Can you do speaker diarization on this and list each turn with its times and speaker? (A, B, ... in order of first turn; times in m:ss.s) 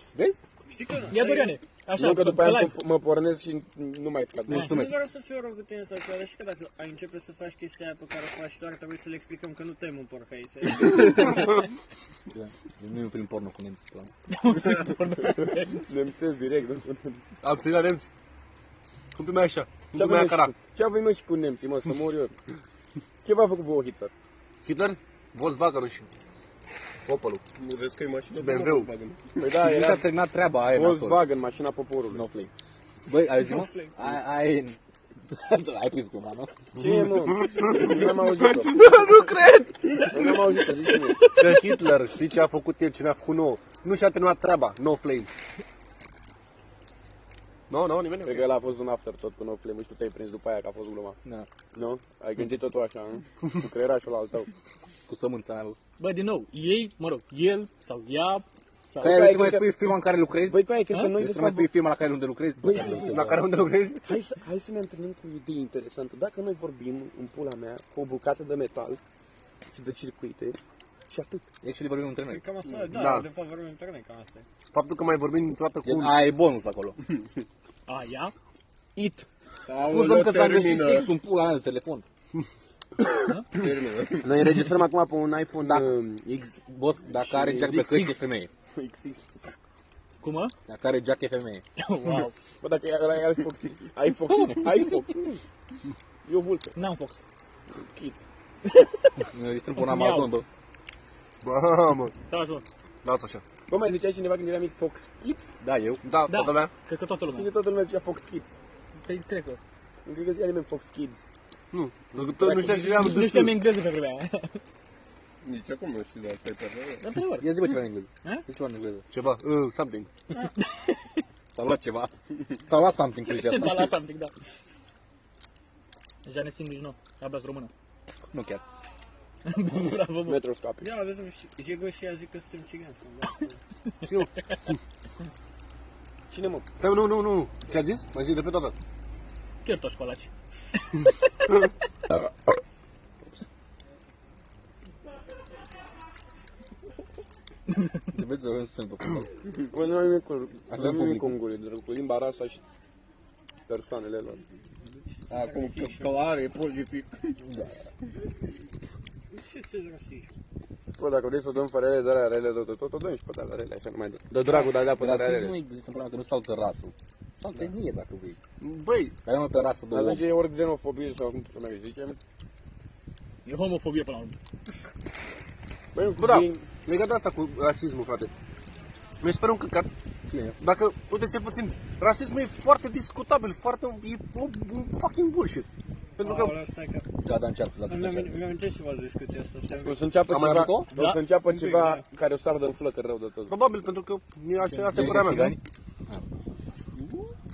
0:00.1-0:00.4 A
0:00.7-0:01.6 B
0:01.1-0:02.8 C
0:02.0-0:04.8 D
0:04.5-0:04.7 C
0:04.6-0:11.5 B
0:12.3-0:14.1 A
0:14.3-0:15.9 C
0:15.9-0:17.2 D
0:17.4-0:18.1 E
0:19.1-0:20.5 E
0:19.9-0:22.3 D
0:23.2-0:24.1 D
0:24.6-0:26.1 E
0:27.0-0:27.4 E
0:27.6-0:29.4 F
0:28.3-0:28.9 E
0:29.4-0:30.0 D
0:29.6-0:31.2 A
0:30.7-0:32.2 D
0:32.1-0:32.5 A
0:33.1-0:34.8 A
0:33.3-0:34.0 B
0:35.3-0:36.5 A
0:36.8-0:38.8 D
0:36.8-0:40.4 E
0:37.5-0:37.9 F
0:40.1-0:41.3 D
0:41.3-0:45.3 E
0:47.7-0:48.5 E
0:48.2-0:51.2 D
0:51.7-0:54.5 D
0:55.1-0:55.8 A
0:56.0-0:59.3 C
0:59.0-0:59.9 D
0:59.0-1:03.4 A
1:00.4-1:01.7 D
1:00.9-1:01.2 C
1:02.6-1:03.4 D
1:02.9-1:04.1 E
1:04.0-1:09.0 D
1:09.7-1:11.4 D
1:11.6-1:12.4 A
1:12.3-1:14.4 B
1:12.9-1:13.3 E
1:14.7-1:16.2 E
1:15.8-1:17.0 A
1:17.9-1:18.3 C
1:19.0-1:19.3 D
1:19.6-1:21.1 F
1:19.8-1:22.0 A
1:23.5-1:24.5 F
1:24.2-1:28.2 D
1:25.6-1:26.0 A
1:26.6-1:28.5 A
1:28.7-1:29.4 D
1:30.2-1:30.5 C
1:30.7-1:31.6 A
1:31.8-1:32.3 C
1:32.6-1:35.4 D
1:36.2-1:36.8 D
1:36.7-1:37.2 C
1:37.7-1:38.3 D
1:38.7-1:39.1 C
1:39.3-1:40.4 A
1:39.8-1:40.3 C
1:41.4-1:42.1 E
1:42.3-1:42.6 C
1:43.0-1:43.4 E
1:43.7-1:45.6 D
1:45.6-1:46.0 A
1:46.0-1:46.7 E
1:46.3-1:47.5 C
1:47.3-1:48.6 D
1:49.0-1:49.6 C
1:50.0-1:51.2 D
1:51.7-1:53.6 E
1:52.4-1:54.6 C
1:55.4-1:57.1 F
1:57.0-1:57.5 C
1:57.4-1:59.0 A
1:59.1-2:00.1 E
2:00.3-2:01.2 C
2:01.5-2:03.9 A
2:03.3-2:04.3 C
2:06.2-2:07.7 C
2:08.3-2:08.6 A
2:09.4-2:10.4 C
2:10.2-2:11.0 D
2:10.8-2:13.6 B
2:14.0-2:14.8 E
2:16.3-2:16.6 D
2:16.8-2:18.7 E
2:19.6-2:21.6 C
2:28.1-2:29.3 A
2:29.7-2:32.6 D
2:30.7-2:31.4 A
2:33.7-2:34.4 D
2:34.8-2:36.2 B
2:35.3-2:37.4 F
2:39.3-2:40.3 B
2:41.0-2:45.6 D
2:44.4-2:48.4 A
2:48.6-2:49.2 E
2:49.2-2:50.2 A
2:49.9-2:52.2 D
2:53.4-2:54.4 C
2:55.9-2:56.6 D
2:56.2-2:58.3 E
2:59.2-2:59.9 E
3:00.6-3:06.6 E
3:06.2-3:07.1 B
3:07.2-3:08.4 A
3:07.9-3:10.1 B
3:09.8-3:13.5 D
3:10.3-3:10.9 E
3:10.9-3:11.2 C
3:11.5-3:12.0 B
3:13.5-3:15.6 E
3:14.7-3:15.4 C
3:14.9-3:16.2 A
3:17.0-3:17.3 F